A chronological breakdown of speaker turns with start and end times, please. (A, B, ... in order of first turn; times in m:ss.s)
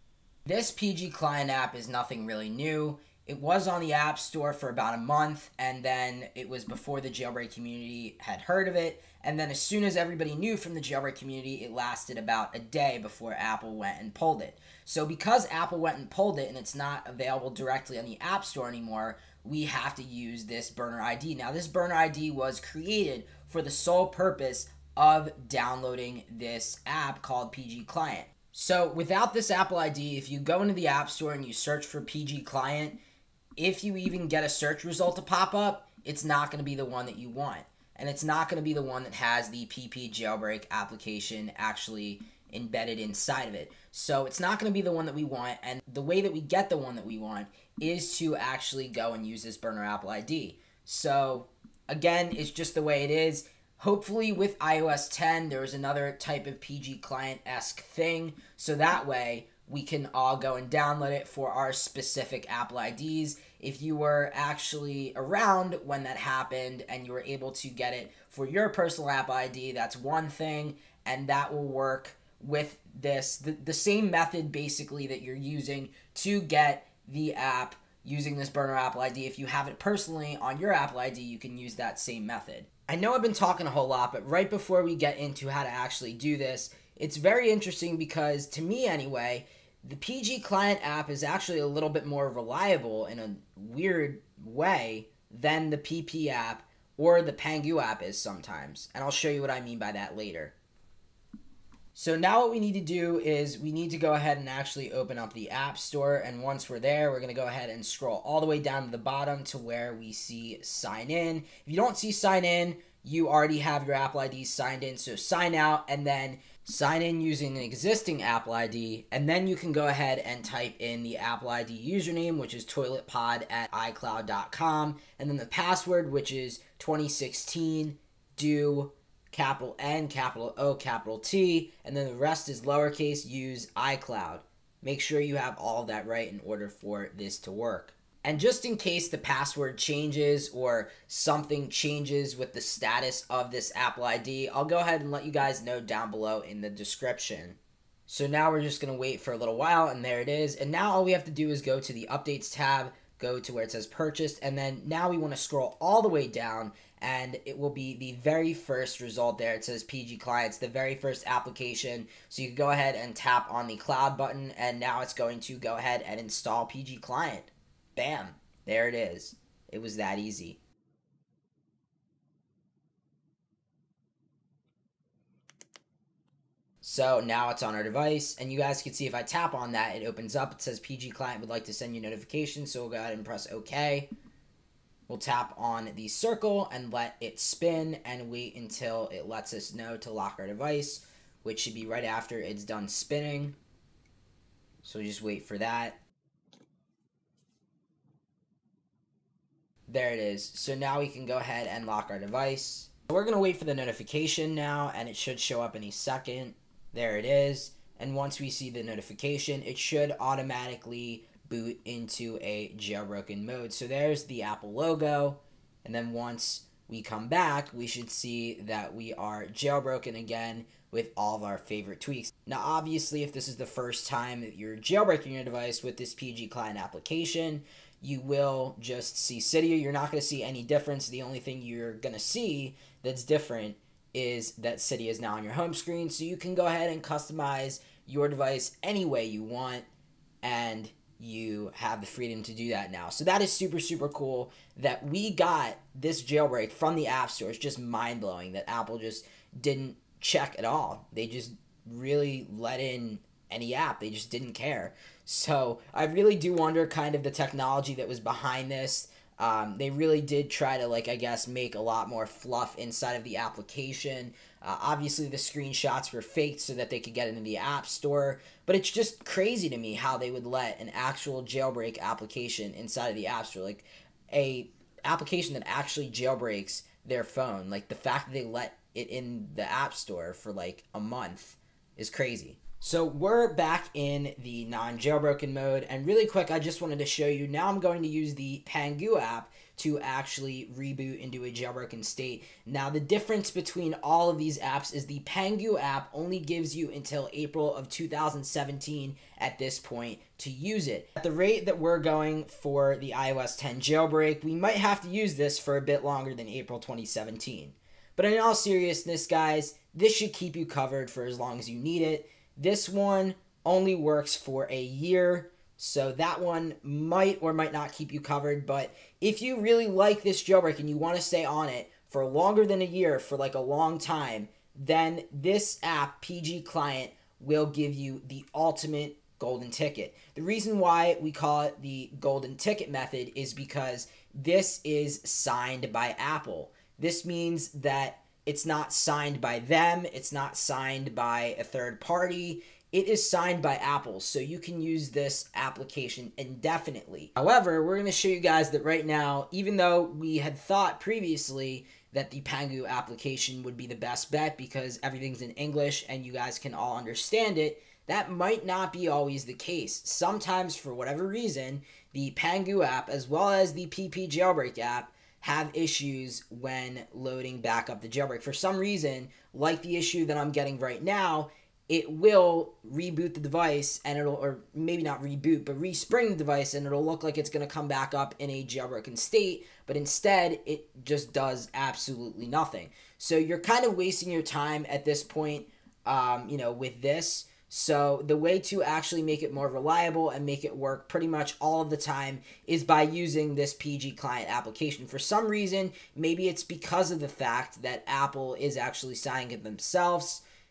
0:00.5-0:33.0 A
0:33.6-1:40.6 A
1:41.9-2:50.6 A
2:56.8-3:04.1 A
3:05.1-3:13.6 A
3:14.8-3:16.0 A
3:19.9-3:59.9 A
4:00.4-6:40.4 A